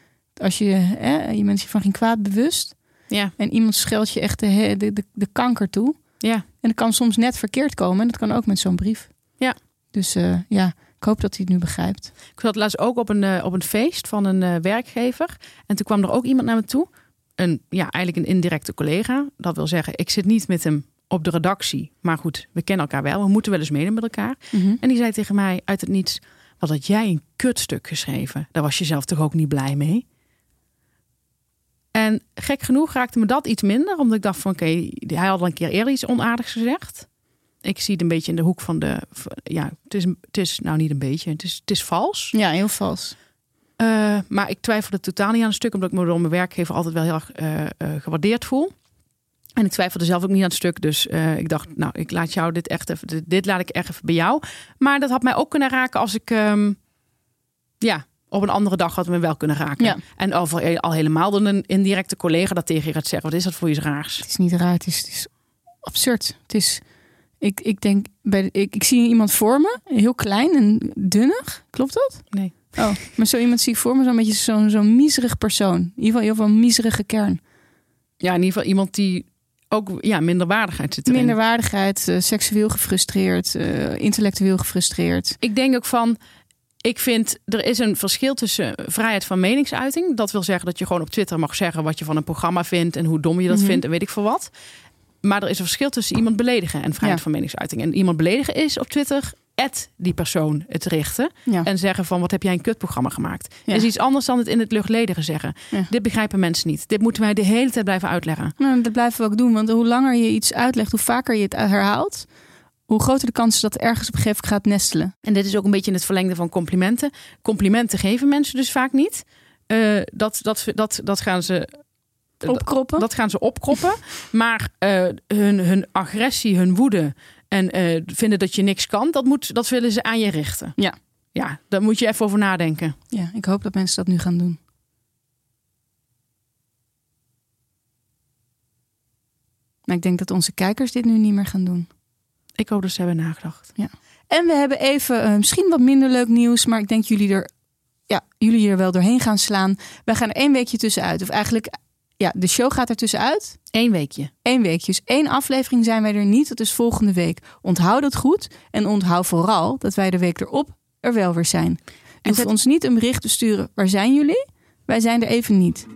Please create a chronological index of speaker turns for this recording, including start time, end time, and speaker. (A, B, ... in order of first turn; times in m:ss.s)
0:00.4-0:02.8 A
0:03.4-0:06.0 A
0:06.6-0:09.1 A
0:09.9-0:12.1 A
0:12.4-0:30.0 B
0:24.5-0:24.8 A
0:31.9-0:37.1 B
0:37.6-0:42.3 B
0:42.3-0:43.2 A
0:43.8-0:48.7 B
0:49.6-0:56.8 B
0:57.8-1:04.3 B
1:04.2-1:05.3 A
1:05.8-1:06.8 A
1:07.4-1:17.4 A
1:12.3-1:12.6 B
1:18.2-1:21.4 B
1:21.1-1:25.4 A
1:25.4-1:26.2 B
1:26.8-1:34.5 B
1:33.5-1:33.8 A
1:35.2-1:48.6 B
1:48.6-1:52.3 A
1:52.9-1:55.1 A
1:55.2-2:01.8 B
2:02.4-2:10.8 B
2:02.4-2:03.1 A
2:11.4-2:13.0 B
2:13.1-2:14.6 A
2:19.9-2:21.9 A
2:22.6-2:23.7 B
2:23.8-2:27.5 A
2:28.1-2:33.6 A
2:33.7-2:34.3 B
2:34.4-2:45.9 A